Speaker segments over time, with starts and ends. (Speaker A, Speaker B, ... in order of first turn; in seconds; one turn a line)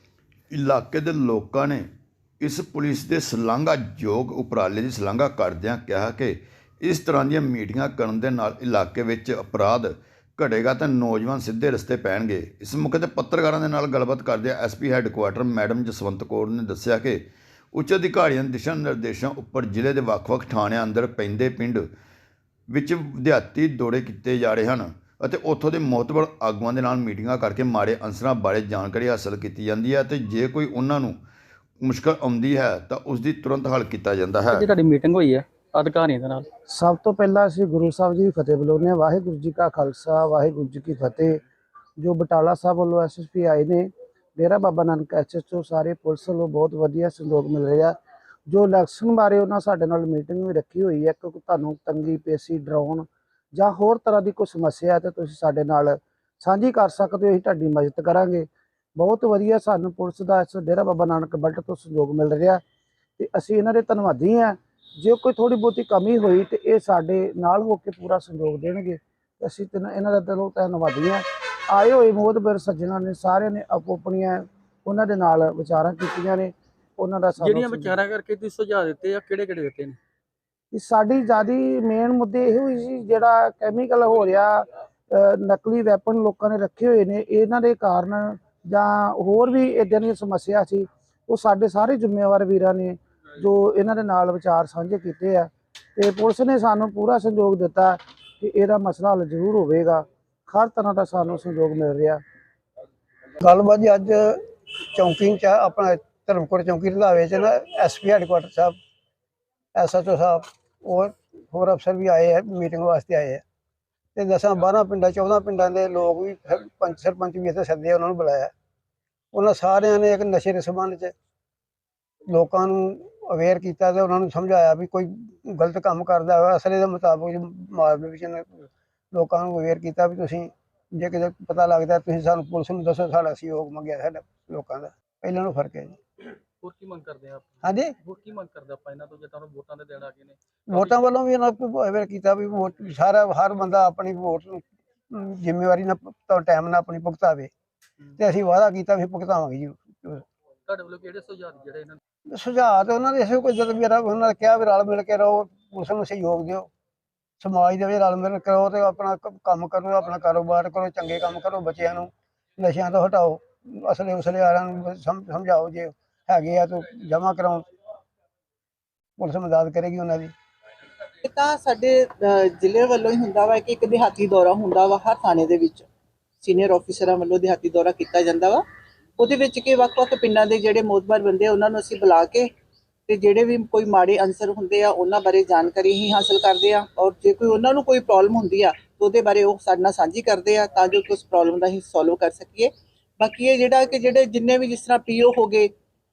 Speaker A: 0.5-1.9
Speaker A: 2.4-21.8
Speaker A: 22.7-31.2
Speaker A: 31.8-34.6
Speaker B: 34.5-36.5
Speaker C: 36.7-41.4
Speaker C: 42.0-48.0
Speaker C: 48.5-62.6
Speaker C: 63.2-77.9
Speaker B: 77.4-80.0
Speaker C: 80.7-102.2
Speaker D: 103.4-104.4
Speaker D: 104.9-108.8
Speaker D: 109.7-113.4
Speaker D: 114.2-118.5
Speaker D: 119.3-121.1
Speaker D: 122.3-136.0
Speaker B: 136.6-141.0
Speaker D: 137.6-137.9
Speaker D: 140.7-147.5
Speaker D: 148.2-150.2
Speaker B: 150.7-152.0
Speaker D: 152.3-156.7
Speaker D: 157.4-167.7
Speaker D: 169.2-170.3
Speaker E: 171.2-175.9
Speaker E: 176.4-178.6
Speaker E: 179.2-182.5
Speaker E: 183.1-195.7